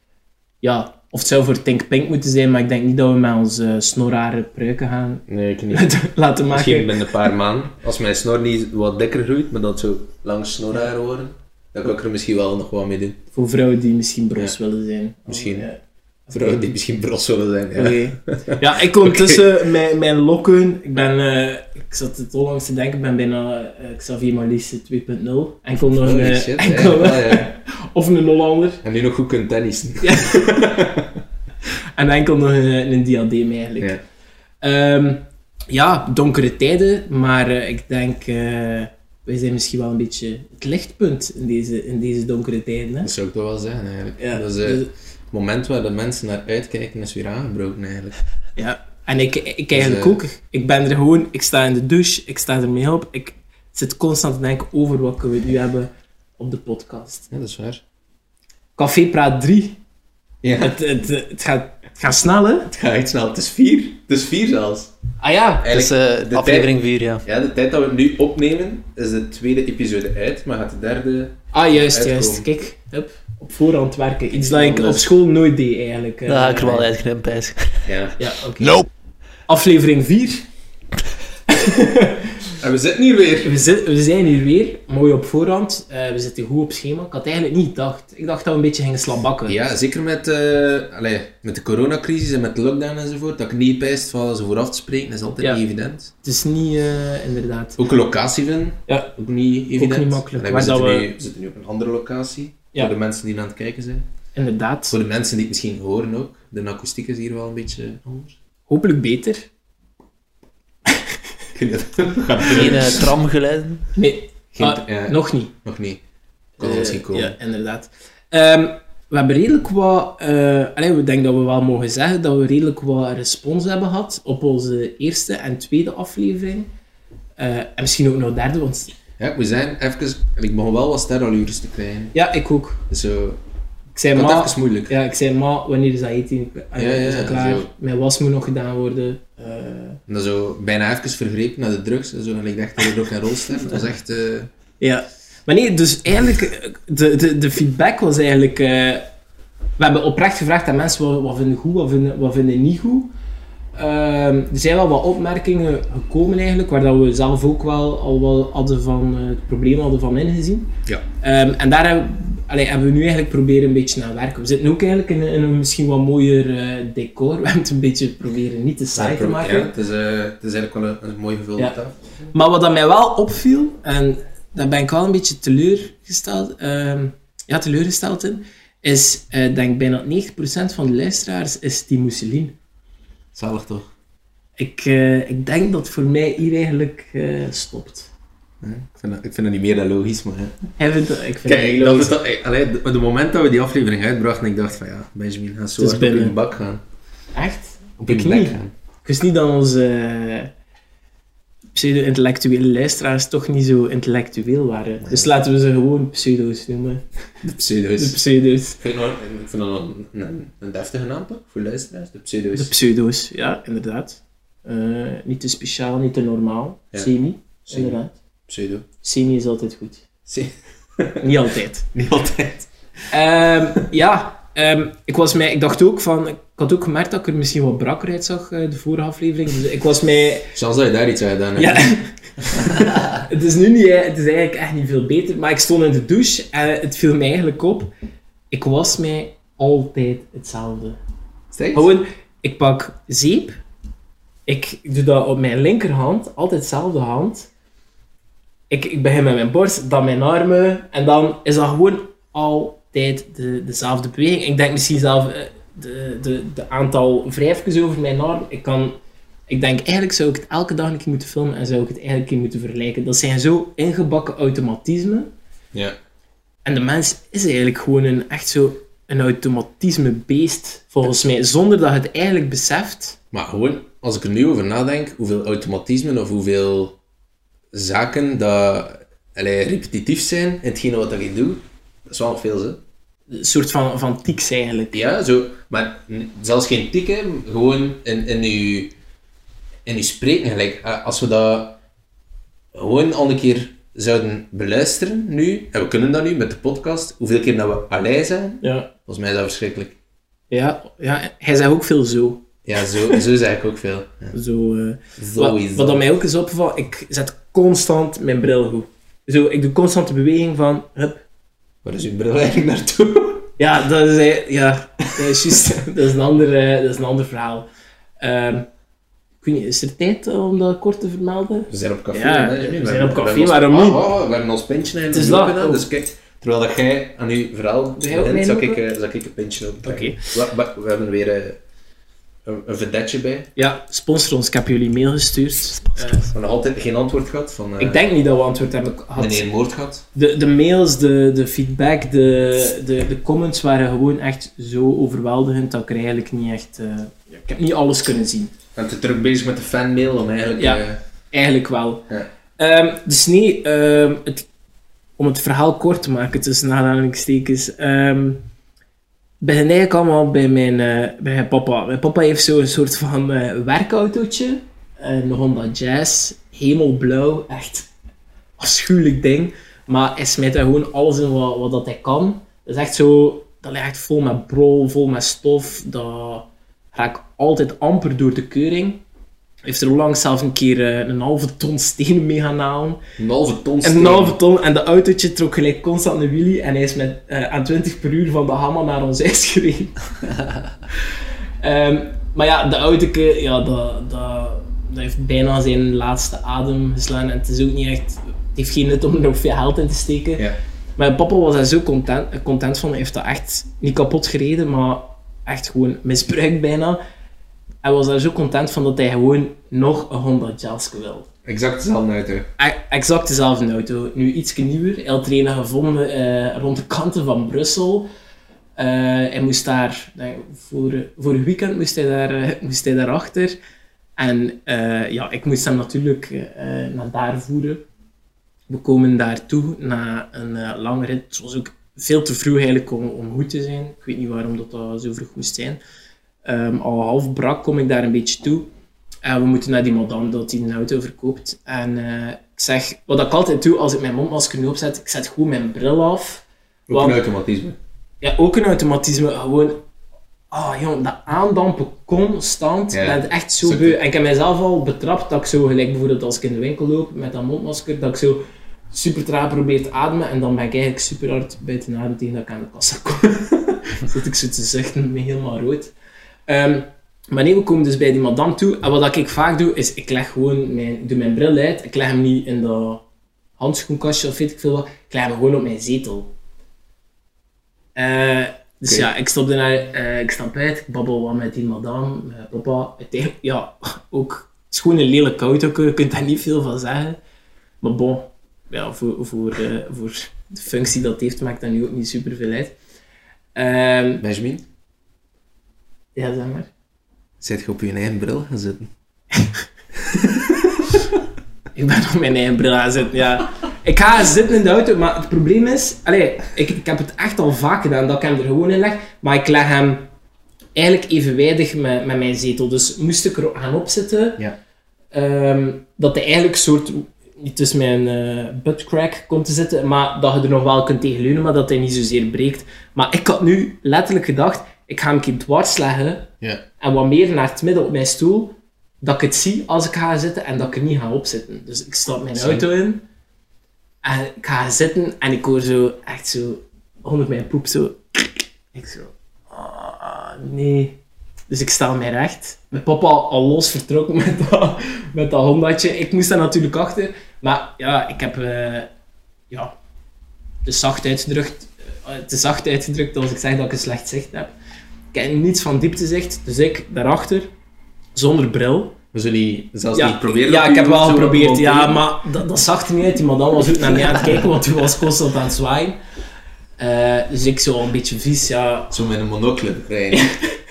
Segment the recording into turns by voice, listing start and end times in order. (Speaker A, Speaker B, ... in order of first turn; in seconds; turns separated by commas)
Speaker A: 0.6-7.2, Speaker B: 5.3-5.9, Speaker B: 6.5-13.2, Speaker A: 13.3-16.7, Speaker B: 15.3-15.7, Speaker B: 16.3-19.5, Speaker A: 17.7-28.8, Speaker B: 26.0-27.5, Speaker B: 28.8-31.2, Speaker A: 30.0-30.6, Speaker A: 32.0-34.0, Speaker A: 34.6-43.1, Speaker B: 43.0-48.2, Speaker A: 44.2-44.9, Speaker A: 48.6-57.3, Speaker B: 49.7-50.2, Speaker B: 57.3-57.8, Speaker A: 58.8-59.8, Speaker B: 60.4-60.8, Speaker A: 60.6-62.7, Speaker B: 62.7-64.9, Speaker A: 65.2-65.7, Speaker B: 65.6-72.5, Speaker C: 65.7-67.2, Speaker A: 71.5-76.9, Speaker B: 74.5-75.1, Speaker C: 76.3-77.9, Speaker B: 77.8-78.2, Speaker A: 78.2-78.9, Speaker A: 79.5-80.5, Speaker A: 81.5-82.5, Speaker B: 82.6-83.6, Speaker A: 83.4-89.6, Speaker B: 89.5-96.1, Speaker A: 96.2-97.8, Speaker B: 97.8-104.0, Speaker A: 98.9-99.1, Speaker A: 99.7-101.1, Speaker A: 104.3-105.0, Speaker B: 104.9-108.3, Speaker A: 108.7-109.5, Speaker B: 111.5-113.1, Speaker C: 112.5-113.8, Speaker A: 114.0-115.5, Speaker B: 114.5-116.0, Speaker B: 116.6-117.4, Speaker A: 116.6-126.7, Speaker A: 127.4-128.9, Speaker B: 129.2-132.1, Speaker A: 132.1-132.8, Speaker B: 132.9-133.4, Speaker A: 133.9-140.0, Speaker B: 134.1-134.9, Speaker B: 136.8-137.7, Speaker B: 140.1-144.5, Speaker A: 144.8-149.1, Speaker A: 149.8-153.1, Speaker A: 153.8-169.7, Speaker B: 168.9-172.0, Speaker A: 172.3-182.5, Speaker B: 183.3-183.9, Speaker A: 184.6-188.1, Speaker B: 188.6-190.6, Speaker A: 190.8-192.2, Speaker B: 191.4-196.8, Speaker A: 195.8-196.3, Speaker A: 197.3-200.5, Speaker B: 198.0-198.7, Speaker A: 201.8-207.1, Speaker B: 205.0-205.3, Speaker B: 207.4-208.2, Speaker A: 208.0-208.8, Speaker B: 208.8-212.7, Speaker A: 212.5-218.1, Speaker B: 217.7-218.9, Speaker A: 219.0-220.0, Speaker B: 220.3-221.3, Speaker A: 221.2-221.9, Speaker B: 221.9-222.7, Speaker A: 223.1-230.5, Speaker B: 230.6-231.9, Speaker A: 231.6-237.9, Speaker A: 238.5-241.0, Speaker B: 241.5-241.9, Speaker A: 241.7-243.6, Speaker A: 244.5-247.5, Speaker A: 248.7-259.0, Speaker A: 259.5-265.3, Speaker A: 266.6-273.2, Speaker B: 273.3-277.0, Speaker B: 277.7-282.8, Speaker A: 283.3-285.1, Speaker B: 284.9-288.9, Speaker B: 289.9-291.8, Speaker B: 292.7-300.0, Speaker A: 298.6-298.9, Speaker A: 300.5-303.2, Speaker B: 302.6-304.4, Speaker A: 304.3-311.2, Speaker B: 305.2-306.0, Speaker B: 311.8-313.5, Speaker A: 313.6-317.7, Speaker A: 318.2-318.7, Speaker A: 319.4-324.1, Speaker B: 321.7-331.6, Speaker A: 325.1-325.9, Speaker A: 328.0-328.8, Speaker A: 329.8-330.3, Speaker B: 332.4-333.5, Speaker A: 333.6-336.3, Speaker B: 336.3-338.0, Speaker A: 337.8-339.5, Speaker B: 339.2-340.1, Speaker A: 340.1-348.5, Speaker B: 348.8-351.0, Speaker A: 350.6-354.5, Speaker A: 355.2-358.4, Speaker A: 359.4-367.9, Speaker A: 368.6-379.0, Speaker A: 379.6-383.0, Speaker B: 383.2-384.4, Speaker A: 383.8-390.0, Speaker A: 391.6-407.0, Speaker A: 407.8-411.3, Speaker B: 411.5-412.5, Speaker A: 412.6-418.1, Speaker A: 418.8-423.6, Speaker A: 424.2-427.9, Speaker A: 428.7-435.8, Speaker A: 436.4-438.7, Speaker A: 439.2-447.2, Speaker B: 446.9-447.8, Speaker A: 448.2-449.8, Speaker A: 450.5-465.9, Speaker B: 452.9-454.0, Speaker A: 466.5-473.0, Speaker A: 473.6-476.3, Speaker A: 478.0-487.2, Speaker A: 487.8-492.8, Speaker A: 493.6-494.2, Speaker B: 494.2-494.6, Speaker A: 496.1-496.7, Speaker B: 497.4-498.9, Speaker A: 499.3-499.6, Speaker B: 500.0-500.9, Speaker A: 501.7-510.1, Speaker A: 510.8-514.4, Speaker A: 515.1-533.0, Speaker B: 532.4-532.7, Speaker A: 534.0-548.9, Speaker A: 550.6-554.5, Speaker A: 555.1-557.5, Speaker A: 558.1-559.0, Speaker B: 559.1-562.0, Speaker A: 560.0-566.0, Speaker A: 566.8-568.9, Speaker B: 568.9-570.3, Speaker A: 570.1-570.5